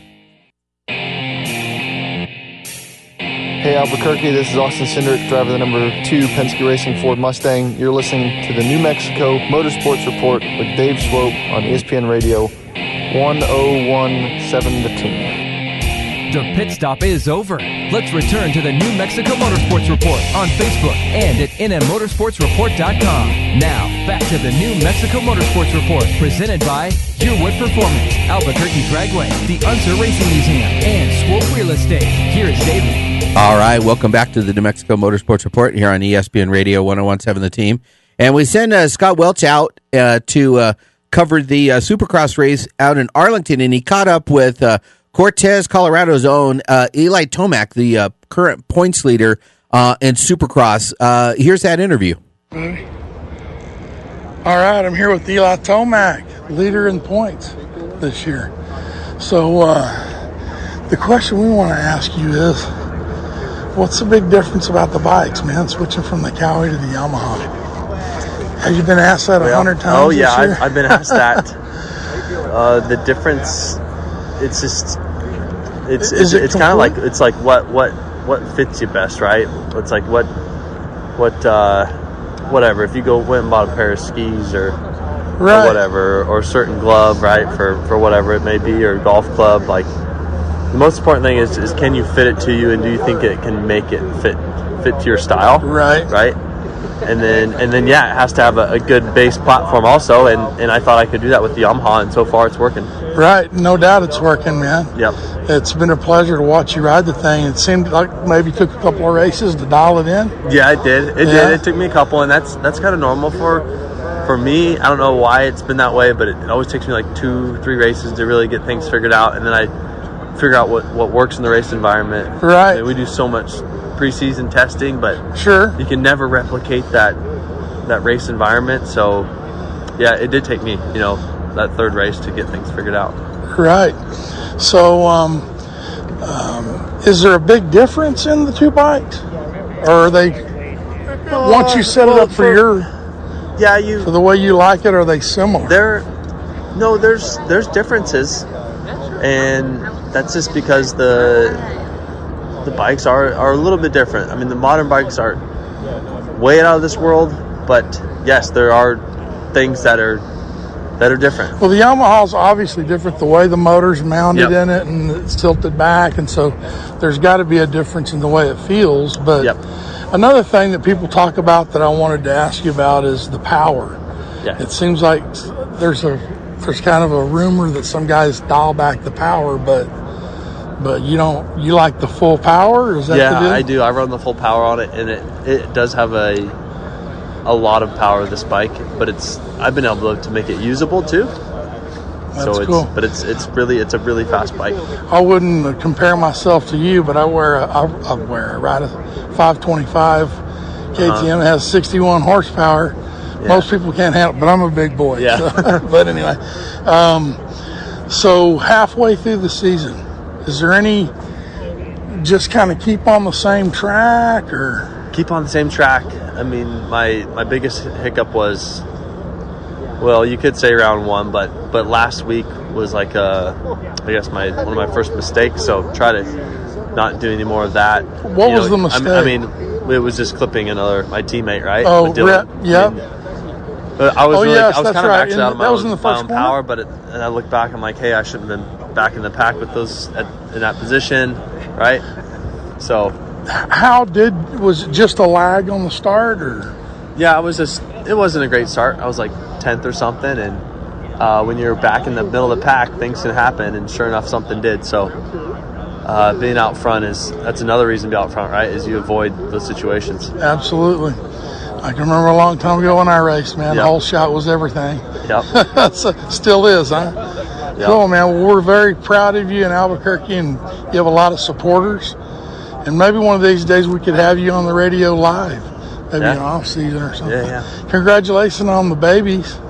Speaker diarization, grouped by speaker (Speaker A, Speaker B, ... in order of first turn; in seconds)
Speaker A: 3.6-12.5, 13.1-15.3
Speaker B: 16.3-33.0
Speaker C: 33.3-52.2
Speaker D: 52.5-52.8, 54.4-58.5, 59.2-60.1, 60.9-62.7, 63.7-67.5, 68.6-71.4, 76.0-77.0, 85.4-85.8, 95.6-96.1, 103.1-104.9, 105.5-110.3, 111.2-111.6, 122.4-122.8, 125.3-125.8, 133.5-134.0, 134.6-135.5, 136.2-139.2, 139.8-140.4, 141.3-142.9, 144.0-145.8, 161.6-169.5, 170.1-174.0, 174.6-179.9, 180.8-183.6, 192.3-192.9, 195.1-200.4, 200.9-207.4, 208.1-211.1, 212.1-214.9, 228.2-229.3, 231.8-232.9, 234.3-236.6, 243.5-246.7, 260.4-261.2, 261.8-267.2, 267.8-272.2, 272.8-279.6
Speaker E: 69.4-71.5, 72.5-73.8, 74.4-75.0, 75.8-80.3, 81.2-81.9, 82.5-84.8, 85.5-89.9, 90.7-96.4, 97.0-102.9, 110.4-113.7, 114.2-119.7, 120.3-125.2, 125.8-127.2, 127.8-129.3, 130.0-133.2, 141.3-142.7, 143.6-144.1, 145.6-146.1, 146.7-148.5, 149.2-151.7, 152.6-155.4, 156.3-160.2, 161.0-161.6, 183.1-186.6, 187.4-191.3, 192.4-194.8, 201.0-201.3, 203.4-203.7, 205.1-205.8, 215.1-218.8, 220.0-226.3, 226.9-233.0, 234.0-242.0, 242.8-243.2, 247.1-250.6, 251.2-255.1, 256.0-260.3, 276.2-276.4, 277.2-277.7